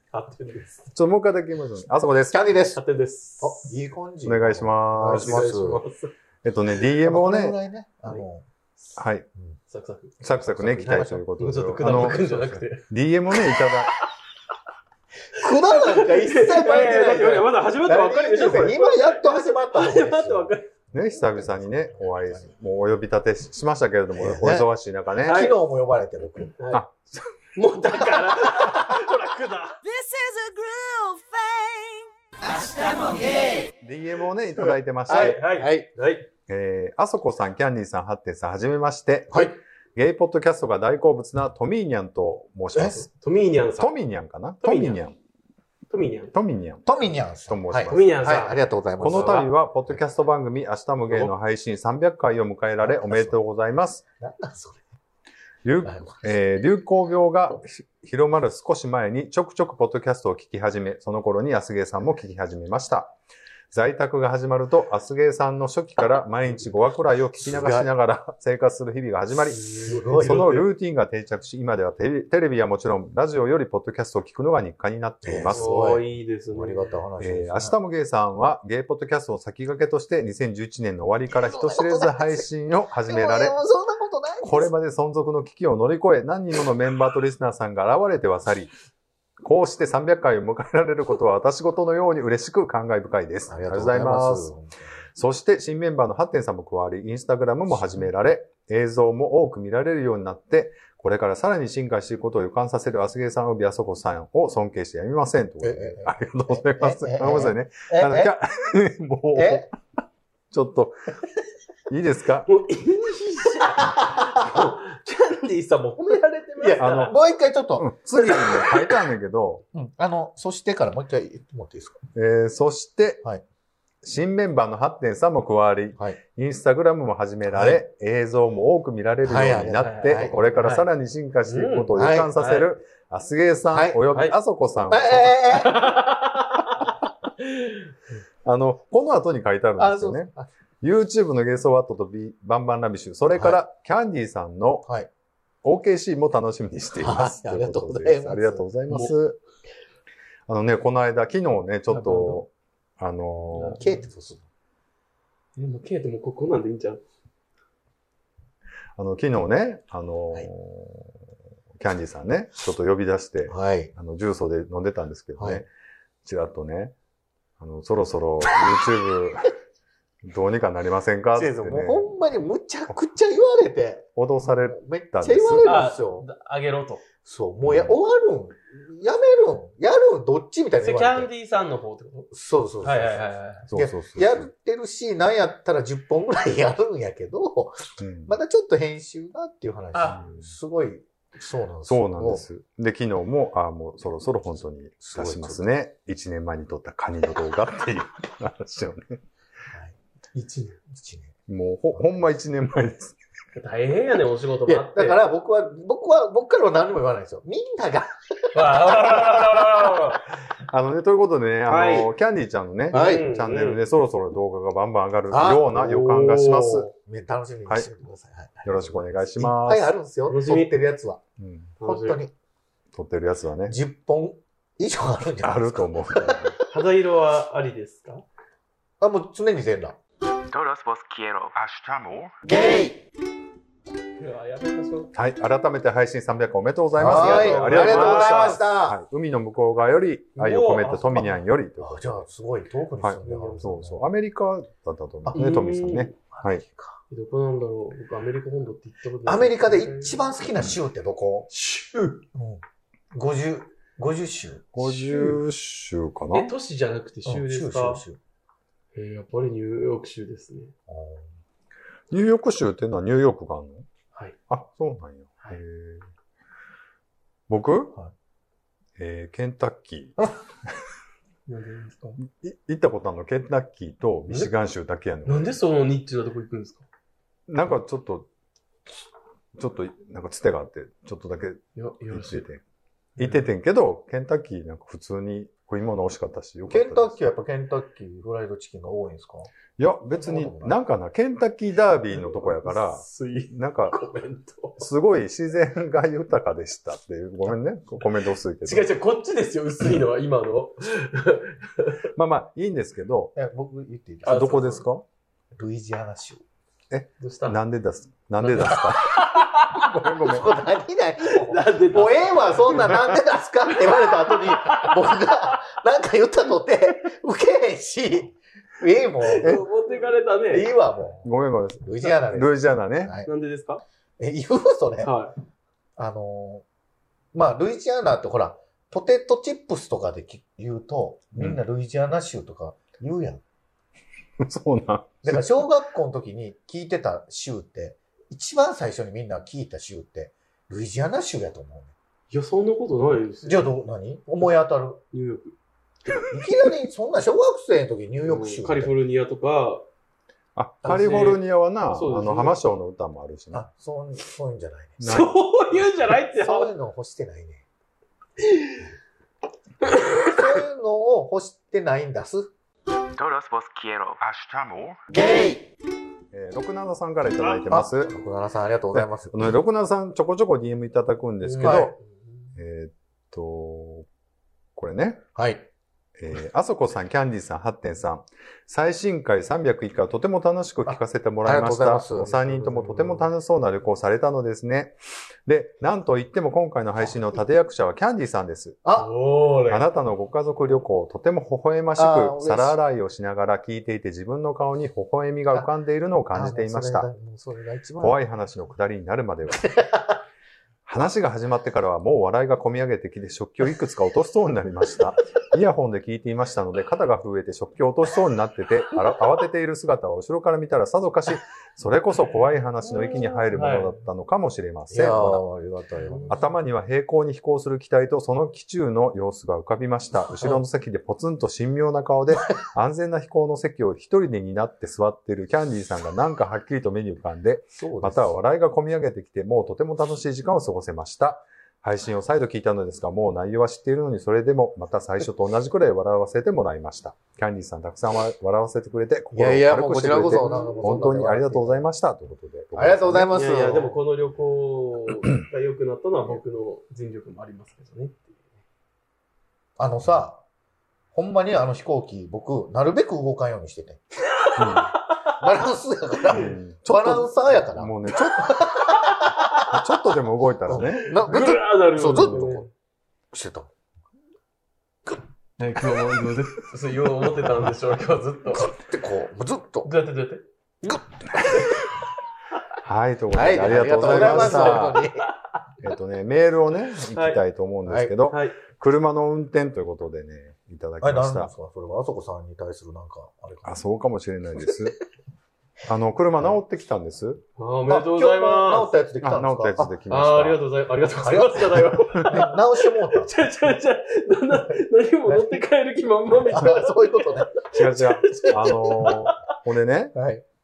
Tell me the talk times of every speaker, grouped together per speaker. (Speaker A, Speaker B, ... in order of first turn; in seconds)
Speaker A: 0.1-0.9, 2.8-3.8, 5.0-6.1, 9.7-10.2, 10.8-12.9, 15.4-20.6, 25.2-25.6, 27.6-29.8, 35.1-36.3, 42.9-43.9, 44.6-45.0, 45.9-46.3, 47.9-49.5, 69.5-70.7, 75.5-77.0, 112.5-117.1, 129.8-130.9, 131.5-132.7, 135.4-136.8, 137.4-137.8, 151.9-152.4, 153.5-154.1, 155.6-157.0, 175.6-177.0, 180.8-183.7, 189.9-190.2, 200.3-200.8, 203.5-205.3, 208.5-210.3, 212.9-213.8, 220.3-220.8, 221.8-222.2, 226.7-228.2, 234.2-235.1, 237.0-238.6, 240.4-241.4, 243.2-243.7, 245.3-246.1, 247.1-250.3, 251.5-252.2, 256.3-258.0, 258.9-260.7, 271.5-272.2, 275.3-276.9, 281.8-282.4, 292.1-294.8, 298.6-302.0, 304.2-304.9, 307.2-307.6, 308.4-309.9, 311.2-313.2, 313.8-315.2, 319.2-320.7, 323.3-323.8, 325.0-325.3, 342.3-343.7, 345.1-345.6, 346.1-346.3, 348.2-349.9, 350.8-352.6, 355.0-356.7, 358.4-358.8, 359.8-360.5, 371.4-372.0, 382.3-383.2, 388.9-389.9, 412.8-413.9, 440.1-441.2, 443.3-448.4, 454.4-455.3, 460.8-462.7, 465.6-468.7, 469.8-471.7, 473.9-475.3, 477.1-477.4, 478.3-478.6, 487.6-488.9, 490.1-499.3
Speaker B: 0.9-2.4, 4.2-5.8, 6.4-7.6, 9.0-9.3, 10.2-12.2, 12.9-13.9, 20.9-25.4, 26.7-27.3, 33.8-35.4, 36.5-43.1, 43.8-45.2, 46.3-46.9, 47.5-48.3, 49.0-54.0, 55.6-63.1, 63.7-75.8, 77.2-83.5, 84.4-88.7, 89.4-94.5, 95.2-109.7, 110.5-111.1, 111.9-112.5, 116.8-117.1, 117.8-119.6, 122.2-123.2, 124.0-135.4, 138.4-144.9, 145.6-149.4, 150.5-153.8, 159.0-161.2, 161.8-165.7, 166.2-166.9, 167.6-169.6, 170.2-172.1, 174.2-175.9, 177.7-177.9, 183.7-184.5, 188.0-188.3, 190.1-190.5, 191.9-199.2, 201.5-203.2, 210.6-216.9, 218.7-219.9, 221.4-221.7, 222.9-223.8, 225.4-226.6, 231.6-232.2, 235.1-242.3, 243.0-246.6, 254.8-256.5, 262.1-263.9, 264.5-266.1, 267.5-268.0, 269.0-270.3, 272.2-275.6, 277.5-278.3, 279.6-282.6, 283.2-287.2, 289.8-294.0, 294.8-298.9, 302.1-303.4, 304.3-305.0, 306.9-309.1, 309.8-310.5, 321.2-323.1, 334.4-335.4, 350.6-353.7, 355.0-355.4, 364.4-365.0, 366.3-368.1, 368.9-372.0, 372.6-374.1, 374.8-375.2, 376.2-388.8, 389.7-397.1, 398.0-399.7, 400.9-415.4, 416.3-443.4, 454.6-454.9, 456.3-458.6, 459.7-461.2, 462.2-462.4, 472.8-475.0, 475.8-481.5, 483.6-485.0, 485.9-487.4, 489.2-490.6, 497.7-500.2
Speaker C: 2.2-2.8, 3.4-5.8, 7.0-8.4, 10.4-12.7, 15.3-22.5, 24.1-26.6, 28.2-28.7, 35.1-35.9, 39.3-39.6, 42.7-43.0, 46.9-49.5, 52.8-53.4, 54.2-54.9, 55.9-56.4, 67.4-67.9, 69.8-70.5, 75.2-77.8, 81.3-82.5, 83.0-84.7, 93.5-94.9, 105.6-108.3, 109.3-109.7, 114.4-114.7, 116.6-118.5, 119.7-122.0, 127.5-127.8, 129.2-130.4, 131.9-132.4, 133.7-134.0, 134.9-135.9, 139.8-140.5, 147.0-148.7, 153.8-154.4, 163.5-163.9, 165.4-165.6, 171.3-176.3, 177.2-181.3, 182.3-192.5, 195.0-195.7, 199.7-200.0, 200.9-201.3, 201.9-202.3, 204.7-210.0, 211.7-212.1, 212.9-213.3, 215.3-221.2, 221.8-222.3, 223.7-226.6, 229.0-230.0, 237.0-239.0, 241.8-244.1, 246.3-247.0, 249.2-251.5, 252.3-255.0, 257.2-258.2, 260.9-261.3, 286.7-289.5, 290.1-290.8, 303.4-304.9, 305.6-306.4, 309.8-319.5, 320.5-321.3, 321.8-323.3, 324.2-325.1, 326.0-326.6, 327.3-333.4, 335.2-341.9, 343.4-345.0, 346.2-348.9, 353.5-355.1, 356.3-357.6, 359.8-362.5, 367.7-369.6, 371.6-371.9, 375.4-375.7, 380.9-382.5, 388.8-389.1, 392.0-392.8, 396.3-398.2, 399.5-400.2, 414.9-416.5, 420.3-420.6, 427.7-428.3, 439.3-441.9, 442.8-444.0, 449.8-450.4, 451.1-454.0, 455.4-459.3, 460.7-462.7, 463.3-463.7, 468.5-469.9, 473.3-475.3, 477.9-478.1, 481.0-483.8, 487.9-489.9, 491.2-493.4, 495.3-495.6, 496.4-497.6, 500.1-500.4
Speaker D: 29.8-33.7
Speaker E: 230.5-232.3, 363.2-364.6